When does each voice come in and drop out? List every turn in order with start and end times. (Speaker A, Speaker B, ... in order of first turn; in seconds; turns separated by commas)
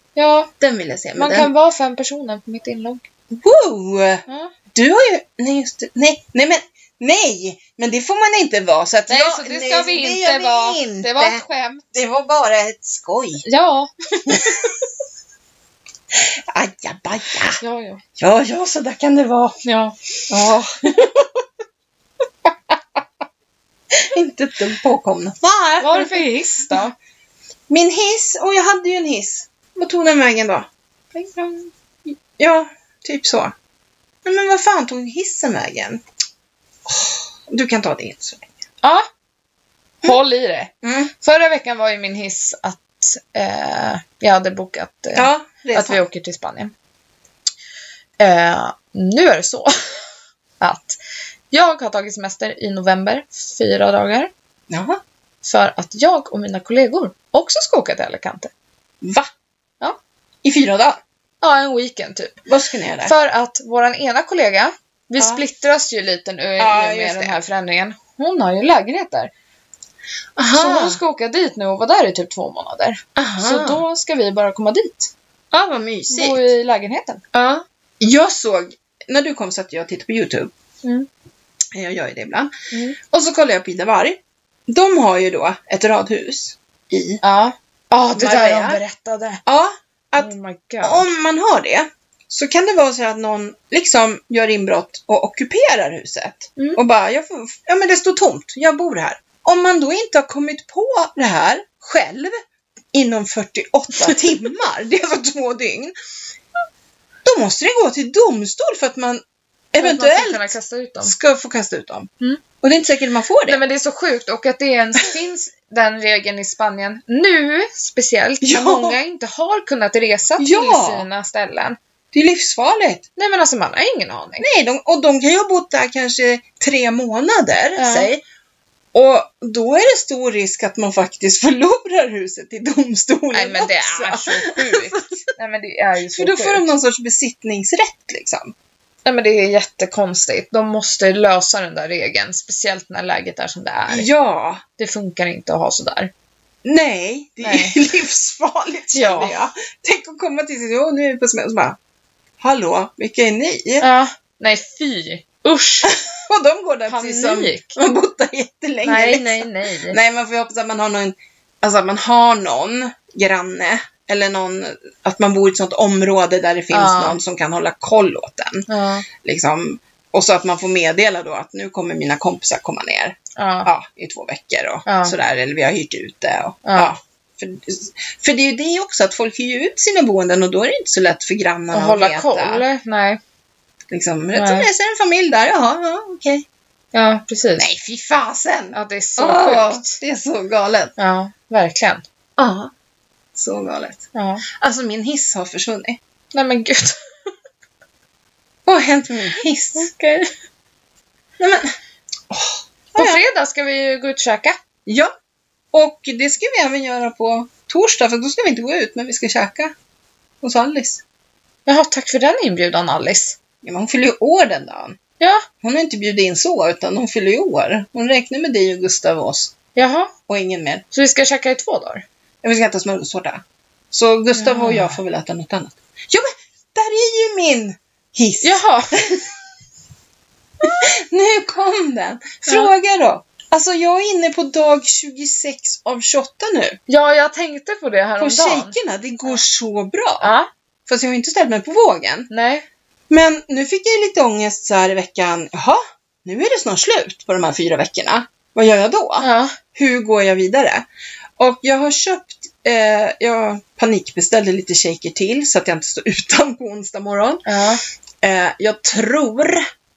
Speaker A: 0.1-0.5, Speaker B: 0.6-1.5, Speaker A: 1.1-3.0, Speaker B: 3.3-11.4, Speaker A: 4.3-4.5, Speaker A: 9.1-11.8, Speaker B: 11.9-13.4, Speaker A: 13.4-14.7, Speaker B: 14.3-14.7, Speaker B: 16.1-17.6, Speaker A: 17.6-18.0, Speaker B: 18.2-19.6, Speaker A: 19.6-20.0, Speaker B: 20.3-21.3, Speaker B: 23.9-26.8, Speaker A: 25.8-26.9, Speaker B: 27.7-33.5, Speaker B: 34.2-36.0, Speaker B: 36.8-38.5, Speaker A: 40.0-46.7, Speaker B: 40.8-41.1, Speaker B: 45.1-46.0, Speaker A: 48.2-49.9, Speaker A: 50.6-51.0, Speaker A: 51.5-54.3, Speaker B: 54.7-55.0, Speaker A: 55.4-58.5, Speaker B: 59.0-59.3, Speaker B: 60.4-61.0, Speaker A: 61.4-62.4, Speaker B: 62.5-63.1, Speaker A: 63.0-69.3, Speaker B: 66.6-67.4, Speaker B: 70.3-71.0, Speaker A: 70.5-75.1, Speaker B: 73.2-73.8, Speaker B: 75.5-76.5, Speaker A: 76.1-77.2, Speaker B: 77.3-80.5, Speaker B: 81.7-87.2, Speaker A: 82.7-83.0, Speaker A: 87.2-89.4, Speaker B: 88.1-88.8, Speaker B: 89.5-90.3, Speaker A: 90.2-91.1, Speaker B: 90.8-102.3, Speaker B: 102.9-105.9, Speaker B: 107.2-113.6, Speaker A: 109.8-111.1, Speaker A: 113.5-121.8, Speaker B: 118.4-119.0, Speaker B: 120.4-121.1, Speaker B: 122.1-123.0, Speaker A: 123.2-124.5, Speaker B: 124.4-128.2, Speaker A: 127.8-128.1, Speaker B: 128.9-135.2, Speaker A: 133.3-136.6, Speaker B: 136.1-138.5, Speaker A: 139.0-144.1, Speaker B: 143.9-144.6, Speaker A: 144.8-146.1, Speaker B: 146.6-151.8, Speaker A: 147.4-147.8, Speaker A: 148.9-149.4, Speaker B: 152.4-153.8, Speaker A: 153.8-155.9, Speaker B: 155.9-168.7, Speaker A: 156.9-157.8, Speaker A: 158.8-160.0, Speaker A: 166.7-167.2, Speaker A: 168.7-169.1, Speaker B: 169.2-182.6, Speaker A: 173.3-173.7, Speaker A: 174.8-175.1, Speaker A: 176.6-176.9, Speaker A: 181.7-183.2, Speaker B: 183.9-186.4, Speaker A: 184.3-184.7, Speaker A: 186.9-187.7, Speaker B: 187.6-190.9, Speaker A: 188.7-190.0, Speaker A: 191.0-192.0, Speaker B: 192.4-192.7, Speaker B: 193.3-196.0, Speaker A: 194.1-194.4, Speaker A: 196.3-197.0, Speaker B: 198.7-199.9, Speaker A: 199.7-200.3, Speaker B: 201.4-201.7, Speaker B: 202.3-203.2, Speaker A: 202.9-204.6, Speaker B: 204.8-205.1, Speaker B: 205.7-209.7, Speaker B: 210.4-211.0, Speaker A: 211.7-213.4, Speaker B: 213.6-215.0, Speaker A: 215.2-215.4, Speaker B: 215.6-219.5, Speaker A: 219.8-220.1, Speaker B: 220.3-220.8, Speaker A: 220.9-222.0, Speaker B: 222.4-229.3, Speaker A: 224.3-224.9, Speaker A: 228.4-229.0, Speaker B: 230.6-236.8, Speaker A: 236.9-238.7, Speaker B: 238.2-240.3, Speaker A: 240.2-240.5, Speaker B: 240.9-242.3, Speaker A: 242.3-242.6, Speaker B: 243.1-250.8, Speaker A: 249.2-249.6, Speaker B: 251.4-257.5, Speaker A: 257.4-257.8, Speaker B: 258.2-259.6